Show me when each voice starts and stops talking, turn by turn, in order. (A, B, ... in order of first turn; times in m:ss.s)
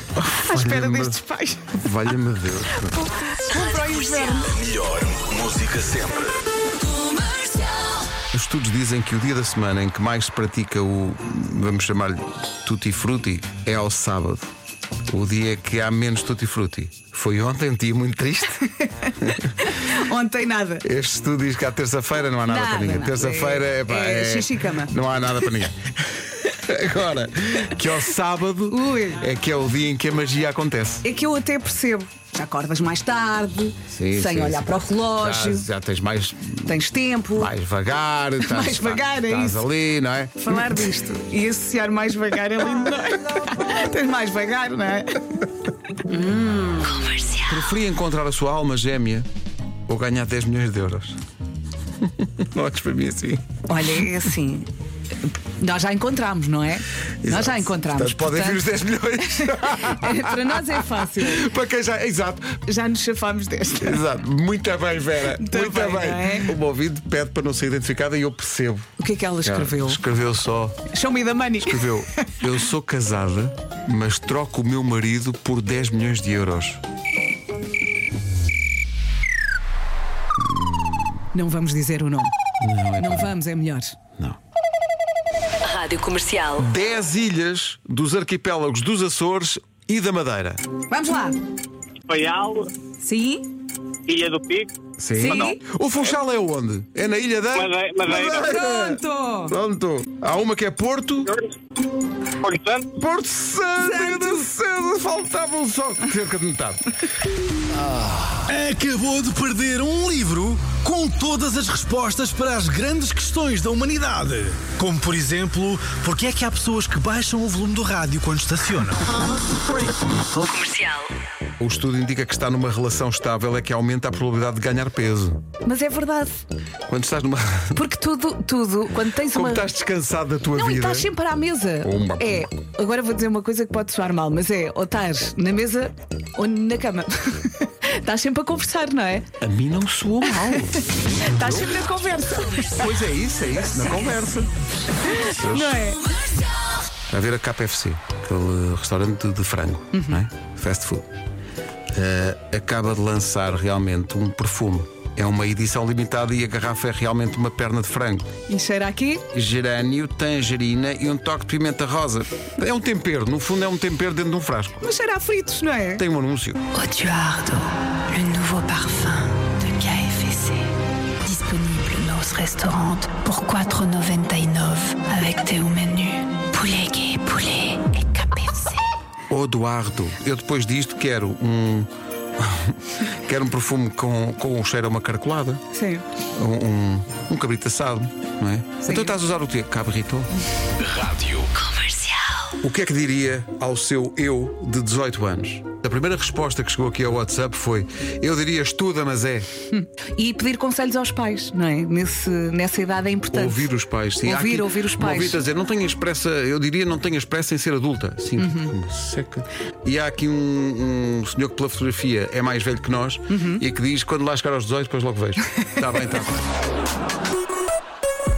0:00.2-0:01.2 A
0:00.3-0:01.8 B
0:01.7-0:03.1 A
0:02.9-0:04.6 B
0:03.5-0:04.5 C
0:04.5-0:06.4 D
0:08.3-0:14.5 A
0:15.1-0:18.6 A
0:18.6-0:20.8 B
0:19.2-0:19.5 A
0:20.8-0:31.0 A
0:22.4-0:24.9 B
0:28.7-0:29.2 B
0:31.0-0:35.7 B
0:33.9-0:36.8 A
0:36.7-0:37.5 B
0:37.4-0:40.8 A
0:38.4-0:39.7 B
0:40.4-0:45.4 B
0:46.1-0:46.9 B
0:46.8-0:47.4 C
0:47.5-0:49.3 A
0:49.9-0:51.2 A
0:52.0-0:54.1 A
0:53.7-0:54.7 B
0:55.6-0:58.6 B
0:57.2-1:02.6 A
0:59.3-1:01.4 B
1:02.7-1:04.0 B
1:03.8-1:08.9 A
1:05.4-1:06.5 B
1:09.0-1:10.0 B
1:09.4-1:10.8 A
1:10.9-1:12.3 B
1:11.6-1:16.8 A
1:20.4-1:21.2 A
1:21.3-1:22.3 B
1:22.6-1:23.4 A
1:23.0-1:24.0 B
1:25.6-1:26.7 C
1:26.6-1:30.6 A
1:30.9-1:31.4 B
1:32.1-1:32.7 E
1:33.0-1:33.5 B
1:34.1-1:34.7 E
1:35.0-1:41.3 A
1:35.2-1:35.6 B
1:37.6-1:38.5 E
1:38.2-1:39.5 B
1:42.4-1:42.9 E
1:43.0-1:46.9 A
1:43.8-1:44.4 B
1:47.9-1:59.1 F
2:00.3-2:01.1 C
2:01.6-2:05.4 A
2:05.6-2:06.4 B
2:06.9-2:07.8 A
2:07.8-2:09.7 B
2:09.3-2:11.1 A
2:10.6-2:19.2 B
2:11.8-2:12.4 A
2:19.4-2:21.8 A
2:20.3-2:22.8 B
2:22.6-2:24.5 A
2:25.0-2:25.9 A
2:25.1-2:26.0 B
2:27.1-2:31.1 A
2:29.9-2:30.2 B
2:31.9-2:38.3 A
2:38.5-2:39.2 B
2:39.3-2:44.9 A
2:44.8-2:46.0 B
2:46.0-2:46.6 A
2:46.7-2:50.7 C
2:51.2-2:58.9 C
2:59.3-3:05.6 A
3:05.7-3:06.0 B
3:06.4-3:10.3 A
3:08.8-3:09.2 B
3:10.8-3:11.5 D
3:11.5-3:12.5 C
3:12.6-3:19.5 A
3:19.7-3:23.6 B
3:23.3-3:36.5 A
3:24.2-3:25.4 B
3:28.4-3:28.7 B
3:33.3-3:33.6 B